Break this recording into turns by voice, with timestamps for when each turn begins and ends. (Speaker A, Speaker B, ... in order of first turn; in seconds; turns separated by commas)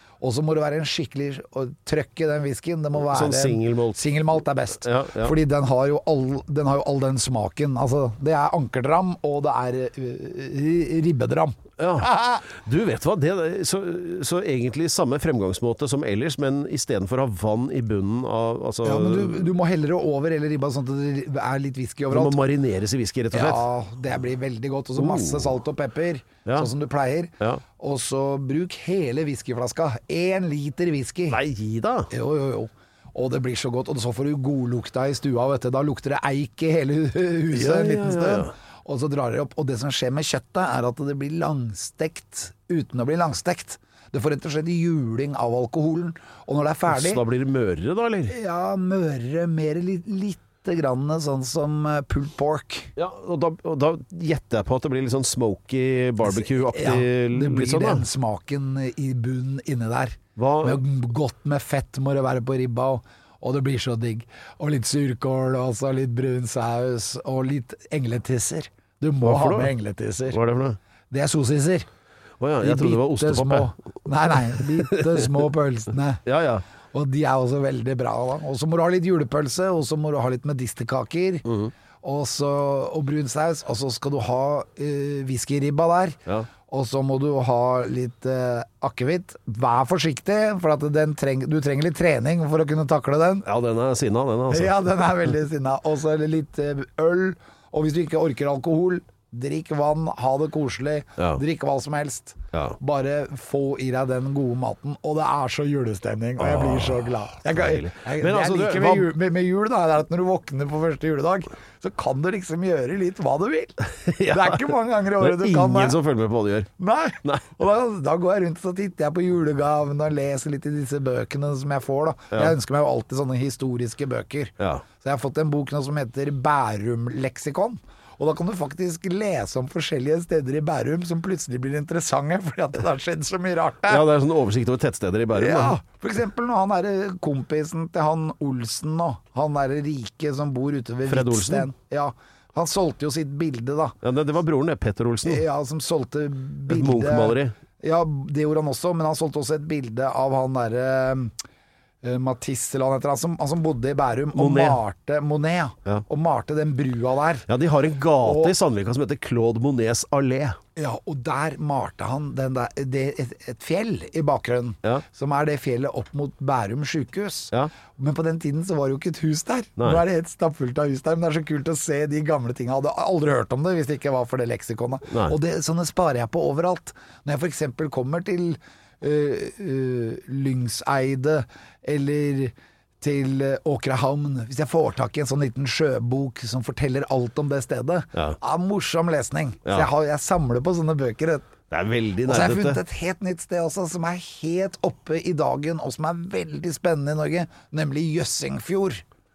Speaker A: 0.2-12.4, Speaker B: 2.9-4.0, Speaker B: 4.8-5.4, Speaker B: 11.8-19.5, Speaker A: 18.8-22.4, Speaker B: 22.1-23.7, Speaker A: 23.3-31.4, Speaker B: 25.0-25.6, Speaker B: 31.3-32.1, Speaker A: 32.1-47.2, Speaker B: 37.5-38.5, Speaker B: 46.9-48.3, Speaker A: 48.3-52.9, Speaker B: 53.0-58.1, Speaker A: 56.2-70.4, Speaker B: 60.4-60.8, Speaker B: 69.2-69.7, Speaker B: 70.3-70.8, Speaker A: 71.1-71.9, Speaker B: 72.4-73.7, Speaker A: 72.6-76.2, Speaker B: 74.6-75.4, Speaker B: 76.2-76.7, Speaker A: 76.9-81.5, Speaker B: 81.5-81.7, Speaker A: 82.0-86.2, Speaker A: 86.7-93.5, Speaker B: 93.5-94.8, Speaker A: 94.5-116.0, Speaker B: 106.4-109.1, Speaker B: 113.9-116.7, Speaker A: 116.8-134.1, Speaker B: 133.9-135.8, Speaker A: 135.3-144.0, Speaker B: 141.1-141.7, Speaker B: 144.0-145.4, Speaker A: 145.2-151.3, Speaker B: 146.7-147.6, Speaker A: 152.0-157.5, Speaker B: 154.3-154.8, Speaker B: 157.5-160.6, Speaker A: 158.2-158.5, Speaker A: 160.8-191.5, Speaker B: 175.1-175.4, Speaker B: 191.7-192.8, Speaker A: 192.3-199.0